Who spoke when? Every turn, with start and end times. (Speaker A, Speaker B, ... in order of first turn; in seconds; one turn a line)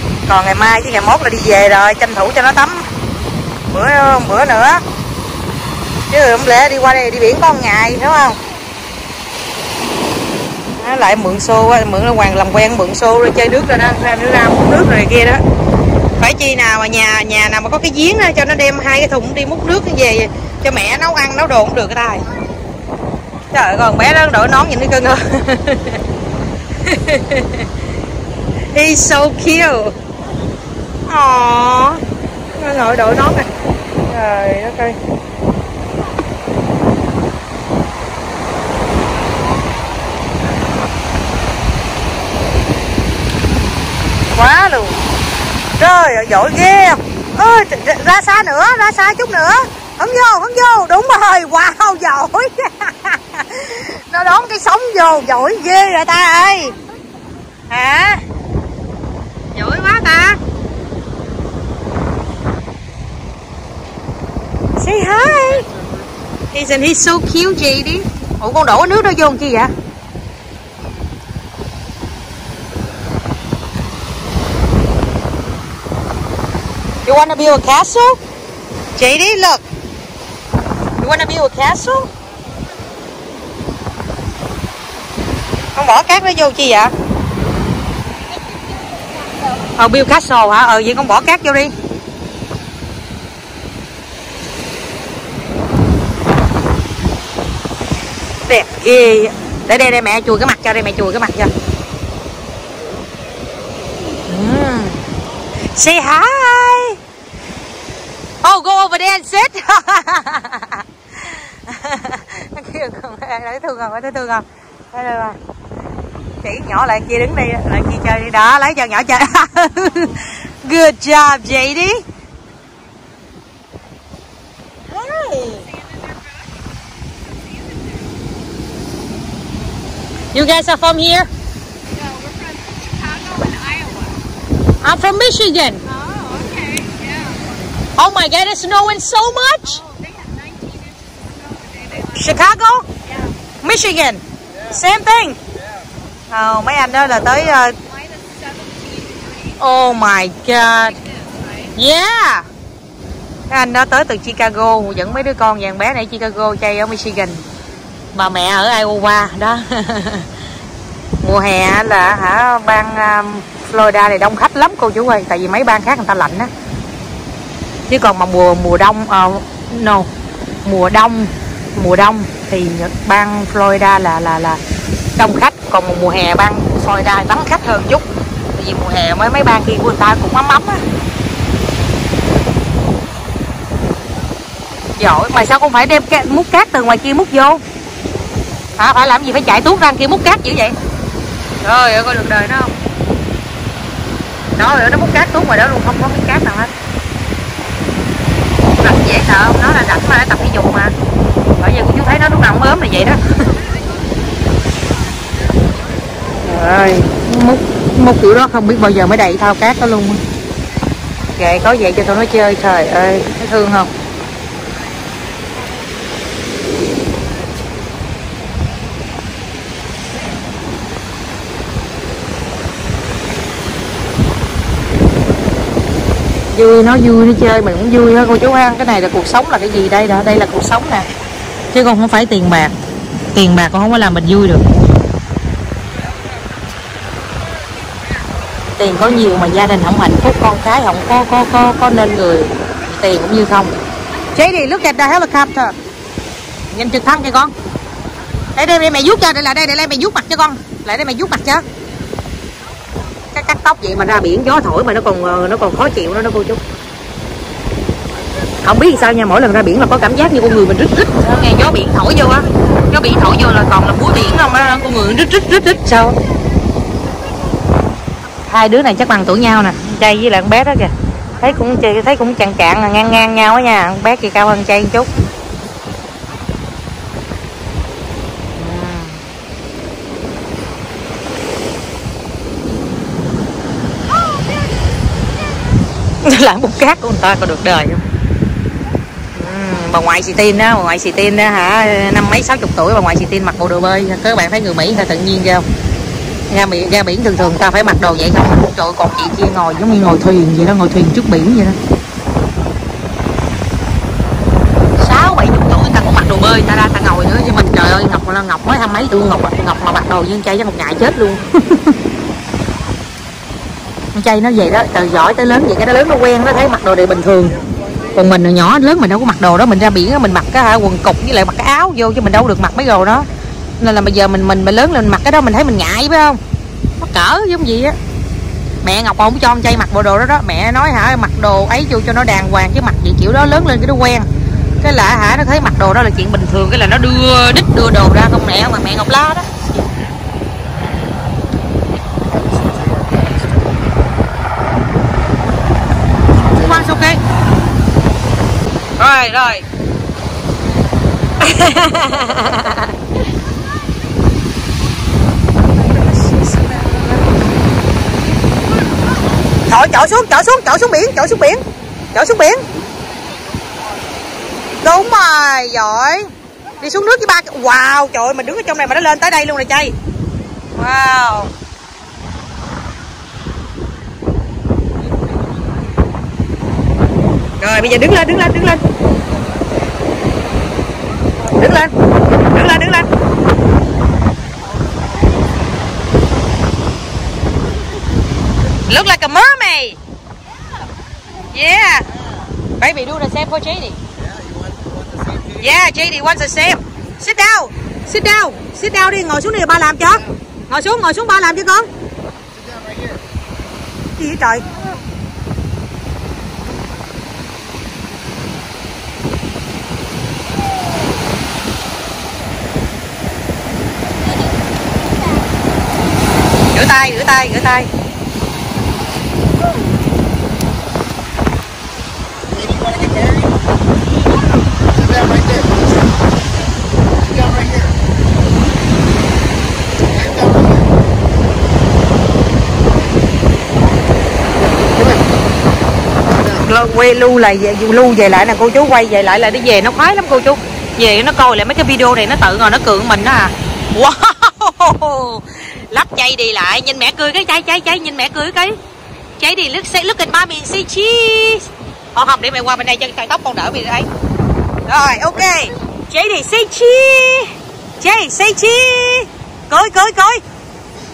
Speaker A: 0.3-2.9
Speaker A: 3.7-4.8
Speaker A: 6.1-8.4
Speaker A: 10.8-15.4
Speaker A: 16.2-22.3
Speaker A: 23.5-26.0
Speaker A: 26.9-27.7
Speaker A: 28.7-29.9
Speaker A: 31.1-33.5
Speaker A: 34.0-35.0
Speaker A: 44.3-45.0
Speaker A: 45.8-56.8
Speaker A: 57.7-58.2
Speaker A: 59.5-60.4
Speaker A: 64.8-65.7
Speaker A: 66.5-69.7
Speaker A: 77.0-78.2
Speaker A: 79.0-79.6
Speaker A: 81.0-82.1
Speaker A: 85.8-86.9
Speaker A: 89.8-91.7
Speaker A: 98.5-101.5
Speaker A: 104.3-105.0
Speaker A: 105.7-107.0
Speaker A: 108.4-115.4
Speaker A: 116.4-122.0
Speaker A: 124.9-125.7
Speaker A: 130.3-131.3
Speaker B: 132.0-134.2
Speaker A: 134.8-135.8
Speaker B: 136.1-137.1
Speaker A: 138.0-139.8
Speaker B: 139.9-141.8
Speaker A: 141.9-142.9
Speaker A: 143.6-145.4
Speaker A: 146.3-147.8
Speaker B: 148.1-149.3
Speaker A: 149.5-151.1
Speaker A: 151.8-152.5
Speaker A: 153.5-157.4
Speaker A: 158.1-160.3
Speaker A: 161.2-166.5
Speaker A: 167.9-170.1
Speaker A: 170.6-174.6
Speaker A: 175.2-180.8
Speaker A: 185.0-187.6
Speaker A: 188.8-190.8
Speaker A: 191.6-192.7
Speaker A: 194.6-196.7
Speaker A: 198.8-200.9
Speaker A: 201.6-203.2
Speaker A: 206.4-210.2
Speaker A: 211.3-213.9
Speaker A: 226.5-231.1
Speaker A: 231.7-232.7
Speaker A: 233.3-234.6
Speaker A: 238.8-243.7
Speaker A: 244.3-245.7
Speaker A: 246.7-247.5
Speaker A: 248.6-251.6
Speaker A: 253.3-256.6
Speaker A: 258.6-266.2
Speaker A: 268.5-275.1
Speaker A: 278.6-279.2
Speaker A: 286.2-288.0
Speaker A: 289.4-295.7
Speaker A: 296.5-301.8
Speaker A: 305.0-311.9
Speaker A: 314.1-317.6
Speaker A: 318.1-323.3
Speaker A: 323.8-326.4
Speaker A: 327.0-328.0
Speaker A: 328.8-334.3
Speaker A: 334.8-339.5
Speaker C: 342.3-343.4
Speaker A: 346.4-347.2
Speaker A: 349.0-349.6
Speaker A: 351.4-352.9
Speaker A: 355.8-357.3
Speaker A: 359.7-361.6
Speaker A: 362.1-362.7
Speaker A: 364.8-369.9
Speaker A: 370.8-371.5
Speaker A: 377.6-378.8
Speaker A: 381.5-383.1
Speaker A: 388.9-390.0
Speaker A: 391.5-392.1
Speaker A: 392.8-394.0
Speaker C: 394.4-395.4
Speaker A: 395.5-401.9
Speaker C: 402.7-403.2
Speaker A: 404.2-404.7
Speaker A: 416.7-417.9
Speaker C: 422.5-423.4
Speaker C: 425.0-425.7
Speaker C: 427.4-427.9
Speaker C: 430.3-430.7
Speaker A: 436.5-448.8
Speaker A: 449.4-454.1
Speaker A: 454.9-460.4